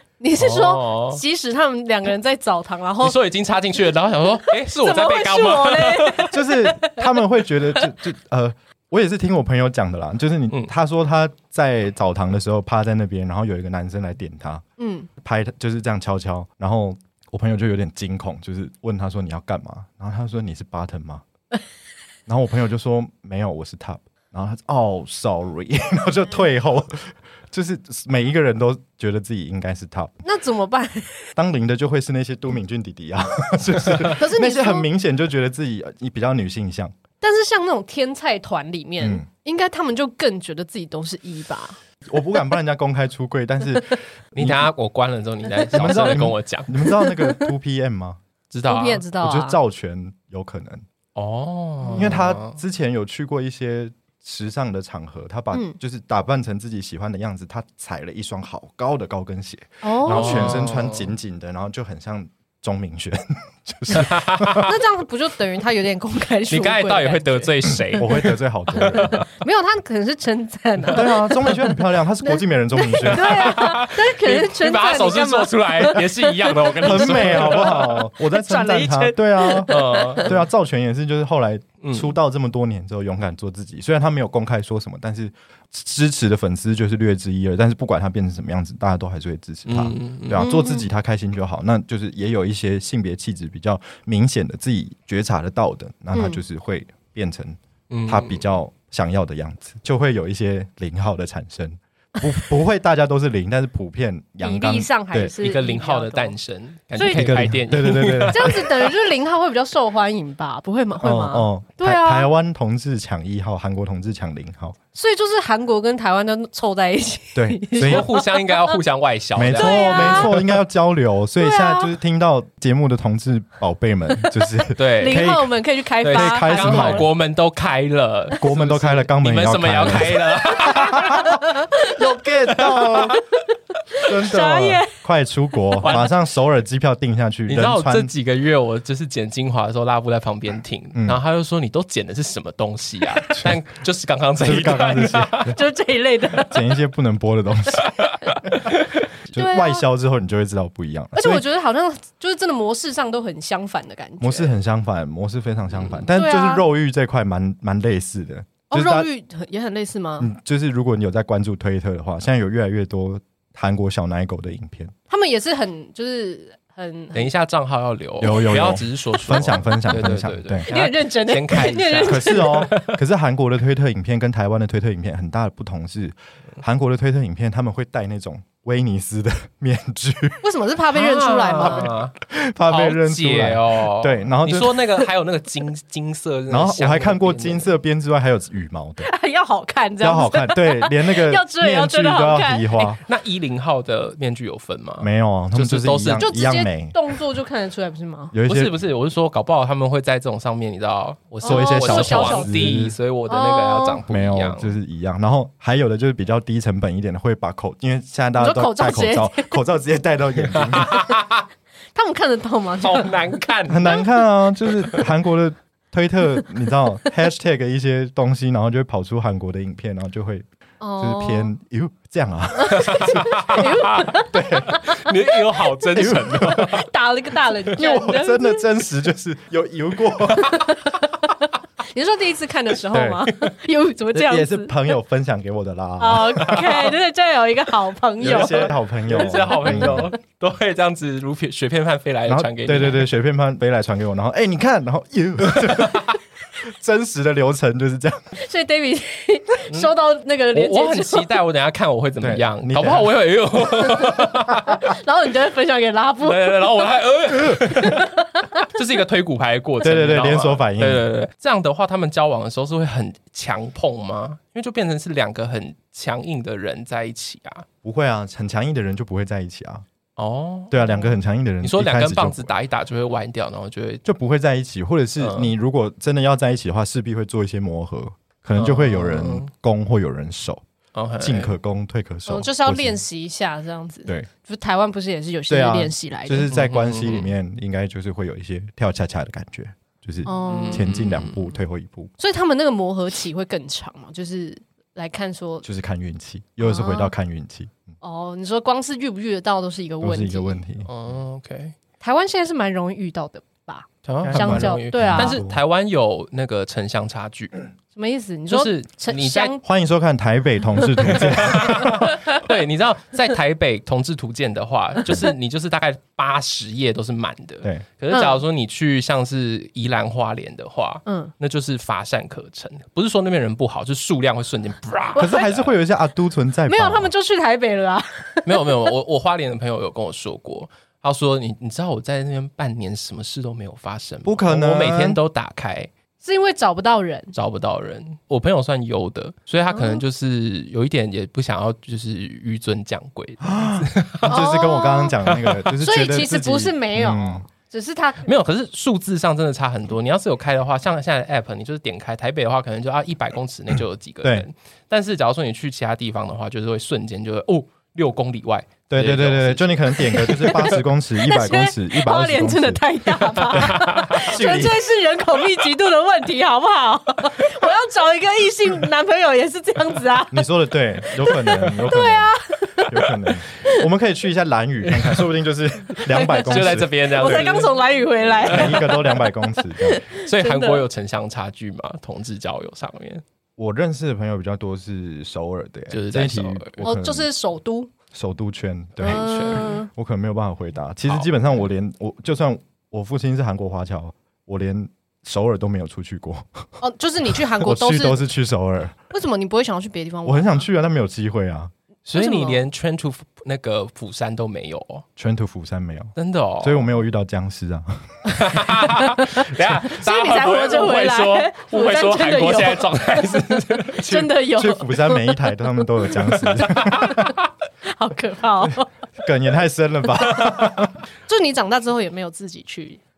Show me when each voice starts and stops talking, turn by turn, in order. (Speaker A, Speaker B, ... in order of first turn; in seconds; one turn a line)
Speaker A: 0.2-3.1
Speaker B: 0.4-1.2
Speaker B: 3.0-6.3
Speaker A: 4.5-7.1
Speaker C: 6.3-14.6
Speaker A: 14.8-15.1
Speaker C: 15.2-21.2
Speaker C: 22.3-30.2
Speaker A: 30.2-31.3
Speaker C: 31.4-36.9
Speaker A: 34.0-34.9
Speaker A: 37.2-41.8
Speaker C: 39.0-39.3
Speaker C: 42.1-44.7
Speaker B: 44.4-46.8
Speaker C: 45.7-48.2
Speaker A: 46.8-47.5
Speaker B: 48.5-49.1
Speaker A: 48.6-49.6
Speaker C: 49.2-50.8
Speaker B: 51.2-52.6
Speaker A: 51.9-52.1
Speaker C: 51.9-64.7
Speaker A: 55.5-55.8
Speaker A: 59.8-60.7
Speaker B: 60.1-61.1
Speaker B: 63.9-64.7
Speaker A: 64.5-68.0
Speaker B: 66.5-69.3
Speaker C: 67.9-69.2
Speaker A: 69.0-80.3
Speaker C: 70.9-73.7
Speaker B: 73.1-77.9
Speaker C: 76.8-105.3
Speaker B: 79.7-80.4
Speaker B: 81.8-82.1
Speaker B: 89.7-90.5
Speaker A: 90.4-90.9
Speaker A: 96.1-96.4
Speaker B: 97.9-98.5
Speaker A: 104.4-106.3
Speaker B: 105.4-108.7
Speaker A: 107.0-107.3
Speaker C: 107.1-108.8
Speaker A: 108.3-112.3
Speaker C: 111.0-114.8
Speaker A: 115.0-118.8
Speaker C: 117.3-118.1
Speaker B: 117.8-120.4
Speaker C: 119.3-125.5
Speaker A: 119.5-120.4
Speaker A: 121.4-121.9
Speaker A: 124.5-127.1
Speaker B: 124.8-125.3
Speaker B: 126.0-131.3
Speaker C: 126.1-127.1
Speaker C: 128.4-133.2
Speaker A: 130.6-135.0
Speaker B: 132.7-133.0
Speaker C: 134.1-138.1
Speaker A: 135.7-136.0
Speaker B: 135.8-136.1
Speaker B: 137.5-145.6
Speaker C: 144.4-145.6
Speaker A: 145.5-146.8
Speaker C: 146.4-147.9
Speaker B: 147.8-148.8
Speaker C: 149.3-151.4
Speaker A: 149.4-149.8
Speaker A: 151.2-154.5
Speaker C: 154.2-159.1
Speaker A: 156.2-156.7
Speaker A: 158.7-160.3
Speaker C: 160.2-164.9
Speaker A: 165.1-167.3
Speaker B: 167.1-173.0
Speaker C: 168.2-170.7
Speaker A: 169.3-169.9
Speaker A: 170.7-172.7
Speaker C: 172.0-180.4
Speaker A: 180.4-181.9
Speaker B: 180.9-182.1
Speaker C: 181.6-185.1
Speaker B: 182.7-187.7
Speaker C: 186.5-189.1
Speaker A: 189.0-193.0
Speaker C: 190.0-193.0
Speaker B: 193.0-196.3
Speaker C: 195.0-197.2
Speaker A: 196.2-198.3
Speaker C: 198.3-198.8
Speaker B: 198.5-204.7
Speaker A: 201.4-204.0
Speaker C: 201.4-203.0
Speaker C: 204.1-211.1
Speaker A: 208.4-209.6
Speaker B: 210.5-211.4
Speaker A: 211.9-213.3
Speaker B: 212.8-214.0
Speaker C: 213.7-220.5
Speaker B: 214.8-215.1
Speaker A: 220.8-221.5
Speaker C: 221.0-223.7
Speaker A: 222.5-228.7
Speaker B: 222.8-226.9
Speaker C: 224.3-224.8
Speaker C: 225.9-226.8
Speaker C: 227.8-230.7
Speaker A: 230.3-234.8
Speaker C: 232.9-233.3
Speaker C: 234.1-236.9
Speaker A: 236.0-240.2
Speaker C: 238.2-240.1
Speaker B: 238.2-243.1
Speaker C: 242.3-248.2
Speaker B: 245.6-246.0
Speaker A: 248.4-251.3
Speaker B: 249.7-250.0
Speaker B: 250.5-254.8
Speaker C: 252.2-253.1
Speaker A: 253.9-256.8
Speaker B: 256.2-267.7
Speaker A: 257.7-258.6
Speaker C: 259.8-261.1
Speaker C: 267.8-269.9
Speaker B: 270.2-271.1
Speaker C: 270.7-272.5
Speaker B: 271.6-274.0
Speaker C: 274.1-280.6
Speaker B: 275.2-275.5
Speaker B: 278.6-279.5
Speaker B: 280.9-281.5
Speaker C: 281.2-283.0
Speaker A: 282.3-286.6
Speaker C: 285.5-292.1
Speaker B: 286.5-287.3
Speaker A: 290.2-290.9
Speaker B: 290.5-291.6
Speaker A: 292.2-295.7
Speaker C: 295.6-297.7
Speaker A: 296.6-297.1
Speaker A: 298.0-300.6
Speaker C: 300.0-300.9
Speaker B: 300.9-301.7
Speaker A: 302.0-305.4
Speaker B: 304.1-307.6
Speaker C: 304.2-305.6
Speaker A: 307.9-309.6
Speaker B: 308.5-309.5
Speaker C: 309.6-312.1
Speaker B: 311.0-325.7
Speaker A: 318.1-318.4
Speaker A: 321.1-321.3
Speaker A: 325.1-325.6
Speaker C: 325.2-327.1
Speaker A: 326.7-328.9
Speaker B: 328.5-335.9
Speaker C: 334.2-335.2
Speaker A: 336.2-337.3
Speaker B: 337.3-344.4
Speaker A: 339.7-340.0
Speaker C: 343.4-347.4
Speaker A: 344.2-345.2
Speaker B: 345.2-345.7
Speaker A: 345.8-348.3
Speaker B: 348.2-360.7
Speaker C: 358.9-362.8
Speaker A: 360.1-370.5
Speaker B: 363.5-364.2
Speaker C: 363.5-364.8
Speaker C: 370.3-376.9
Speaker A: 371.0-373.9
Speaker B: 374.9-375.3
Speaker B: 376.0-377.8
Speaker A: 376.1-380.8
Speaker B: 378.4-379.0
Speaker C: 378.4-380.0
Speaker B: 380.1-383.2
Speaker C: 383.6-387.3
Speaker B: 385.9-386.9
Speaker A: 386.8-387.9
Speaker C: 388.1-396.8
Speaker A: 389.0-389.9
Speaker B: 389.1-389.7
Speaker B: 391.1-391.5
Speaker A: 396.8-398.3
Speaker C: 397.5-399.0
Speaker A: 399.1-400.6
Speaker C: 400.2-401.7
Speaker B: 402.1-405.1
Speaker A: 402.1-402.6
Speaker C: 405.2-408.3
Speaker B: 406.2-406.9
Speaker B: 408.3-414.2
Speaker A: 409.0-417.3
Speaker C: 414.0-417.3
Speaker B: 416.5-417.2
Speaker A: 417.9-418.9
Speaker C: 419.2-421.0
Speaker A: 421.3-423.0